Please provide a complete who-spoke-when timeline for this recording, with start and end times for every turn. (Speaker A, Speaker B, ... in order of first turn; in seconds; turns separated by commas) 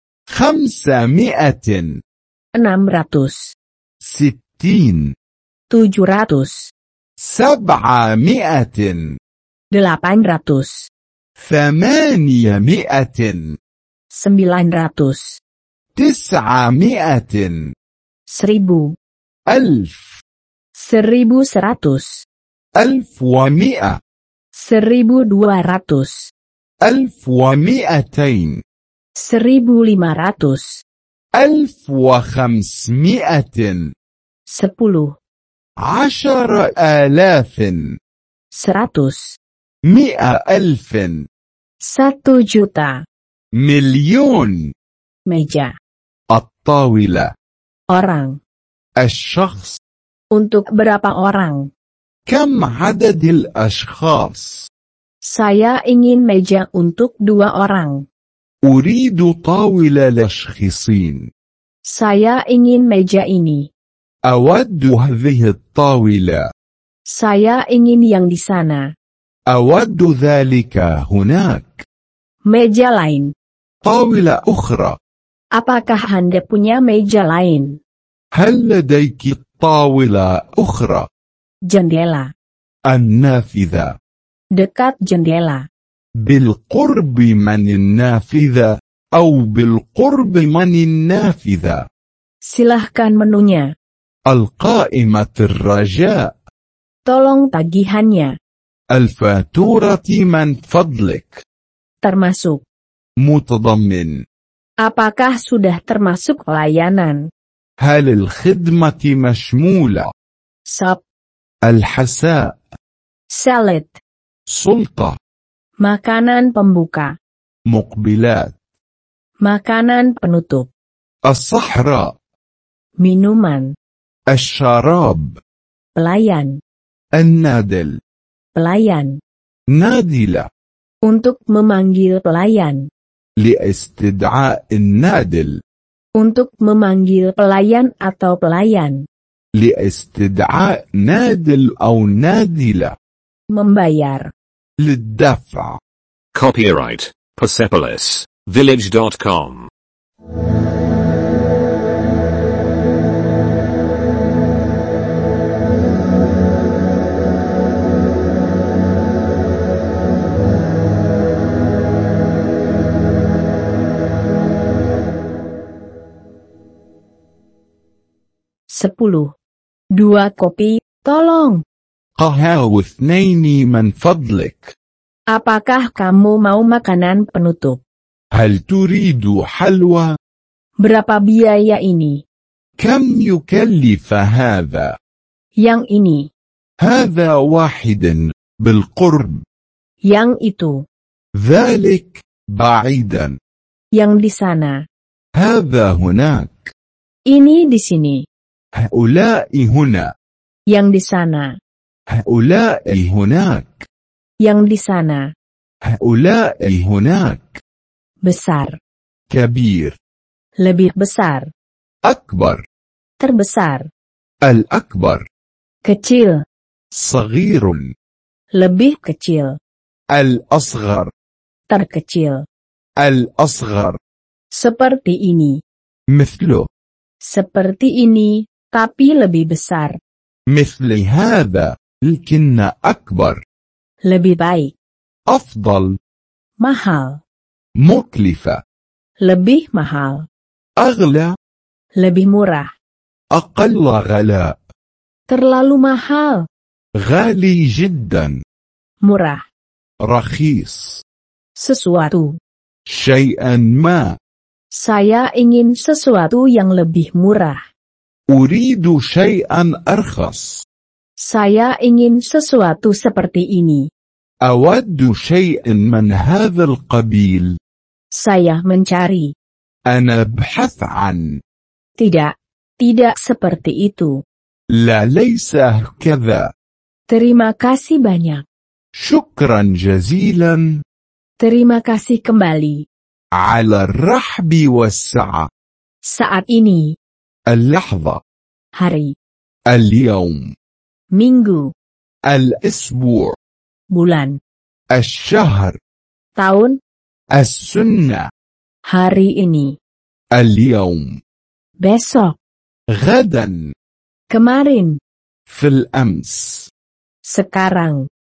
Speaker A: 0.3-2.0, Speaker B: 2.6-3.5, Speaker A: 4.0-5.1, Speaker B: 5.7-6.7, Speaker A: 7.2-9.2, Speaker B: 9.7-10.9, Speaker A: 11.4-13.6, Speaker B: 14.1-15.4, Speaker A: 15.9-17.7, Speaker B: 18.3-18.9, Speaker A: 19.5-20.2, Speaker B: 20.8-22.3, Speaker A: 22.8-24.0, Speaker B: 24.5-26.3, Speaker A: 26.8-28.6, Speaker B: 29.2-30.8, Speaker A: 31.4-33.9, Speaker B: 34.5-35.1, Speaker A: 35.8-38.0, Speaker B: 38.5-39.4, Speaker A: 39.9-41.3, Speaker B: 41.8-43.0, Speaker A: 43.6-44.7, Speaker B: 45.3-45.7, Speaker A: 46.3-47.3, Speaker B: 47.9-48.4, Speaker A: 49.0-49.8, Speaker B: 50.3-51.7, Speaker A: 52.3-54.7, Speaker B: 55.3-58.0, Speaker A: 58.6-61.3, Speaker B: 61.9-63.7, Speaker A: 64.3-66.5, Speaker B: 67.1-68.8, Speaker A: 69.5-71.8, Speaker B: 72.5-73.3, Speaker A: 73.8-75.0, Speaker B: 75.6-77.8, Speaker A: 78.3-81.1, Speaker B: 81.7-82.3, Speaker A: 82.9-84.0, Speaker B: 84.6-85.7, Speaker A: 86.2-91.9, Speaker B: 92.5-93.7, Speaker A: 94.3-96.3, Speaker B: 97.1-98.4, Speaker A: 98.9-101.4, Speaker B: 102.0-102.7, Speaker A: 103.2-104.2, Speaker B: 104.8-107.2, Speaker A: 107.8-110.1, Speaker B: 110.7-111.0, Speaker A: 111.7-112.6, Speaker B: 113.3-114.0, Speaker A: 114.5-115.2, Speaker B: 115.8-117.1, Speaker A: 117.7-118.6, Speaker B: 119.4-120.7, Speaker A: 121.3-122.1, Speaker B: 123.0-123.7, Speaker A: 124.3-125.4, Speaker B: 126.0-126.6, Speaker A: 127.2-128.0, Speaker B: 128.6-129.2, Speaker A: 129.7-130.5, Speaker B: 131.1-132.9, Speaker A: 133.4-135.6, Speaker B: 136.2-139.0, Speaker A: 139.6-143.0, Speaker B: 143.5-144.3, Speaker A: 144.8-145.8, Speaker C: 146.3-149.7, Speaker B: 168.7-169.3, Speaker B: 169.9-171.6, Speaker A: 172.2-174.7, Speaker B: 175.3-177.8, Speaker A: 178.3-180.1, Speaker B: 180.8-182.2, Speaker A: 182.8-185.0, Speaker B: 185.6-186.3, Speaker A: 186.8-189.4, Speaker B: 190.1-190.8, Speaker A: 191.4-193.4, Speaker B: 194.0-194.8, Speaker A: 195.3-196.7, Speaker B: 197.3-198.3, Speaker A: 198.8-200.1, Speaker B: 200.7-201.5, Speaker A: 202.1-203.9, Speaker B: 204.4-205.3, Speaker A: 205.8-207.6, Speaker B: 208.2-208.8, Speaker A: 209.3-210.0, Speaker B: 210.6-211.5, Speaker A: 212.0-212.6, Speaker B: 213.2-213.9, Speaker A: 214.4-215.3, Speaker B: 215.8-216.4, Speaker A: 216.9-217.9, Speaker B: 218.5-219.6, Speaker A: 220.1-221.1, Speaker B: 221.7-222.4, Speaker A: 223.0-224.0, Speaker B: 224.5-225.6, Speaker A: 226.1-226.7, Speaker B: 227.2-230.0, Speaker A: 230.5-233.4, Speaker B: 234.1-234.8, Speaker A: 235.3-236.0, Speaker B: 236.6-237.2, Speaker A: 237.8-238.6, Speaker B: 239.2-240.3, Speaker A: 240.8-241.3, Speaker B: 242.0-242.7, Speaker A: 243.3-244.6, Speaker B: 245.3-246.4, Speaker A: 247.0-248.4, Speaker B: 249.0-249.4, Speaker A: 250.1-251.0, Speaker B: 251.6-252.4, Speaker A: 252.9-254.1, Speaker B: 254.8-257.6, Speaker A: 258.3-260.6, Speaker B: 261.2-263.9, Speaker A: 264.4-267.5, Speaker B: 268.1-269.3, Speaker A: 269.9-271.4, Speaker B: 272.0-274.1, Speaker A: 274.7-276.5, Speaker B: 277.1-278.4, Speaker A: 278.9-280.8, Speaker B: 281.4-282.8, Speaker A: 283.3-285.5, Speaker B: 286.1-286.9, Speaker A: 287.5-288.2, Speaker B: 288.8-289.1, Speaker A: 289.7-290.5, Speaker B: 291.1-291.7, Speaker A: 292.3-293.4, Speaker B: 293.9-294.4, Speaker A: 294.9-295.8, Speaker B: 296.4-296.8, Speaker A: 297.3-298.3, Speaker B: 298.9-299.8, Speaker A: 300.3-301.2, Speaker B: 301.8-302.4, Speaker A: 302.9-303.7, Speaker B: 304.3-305.0, Speaker A: 305.5-306.7, Speaker B: 307.2-308.1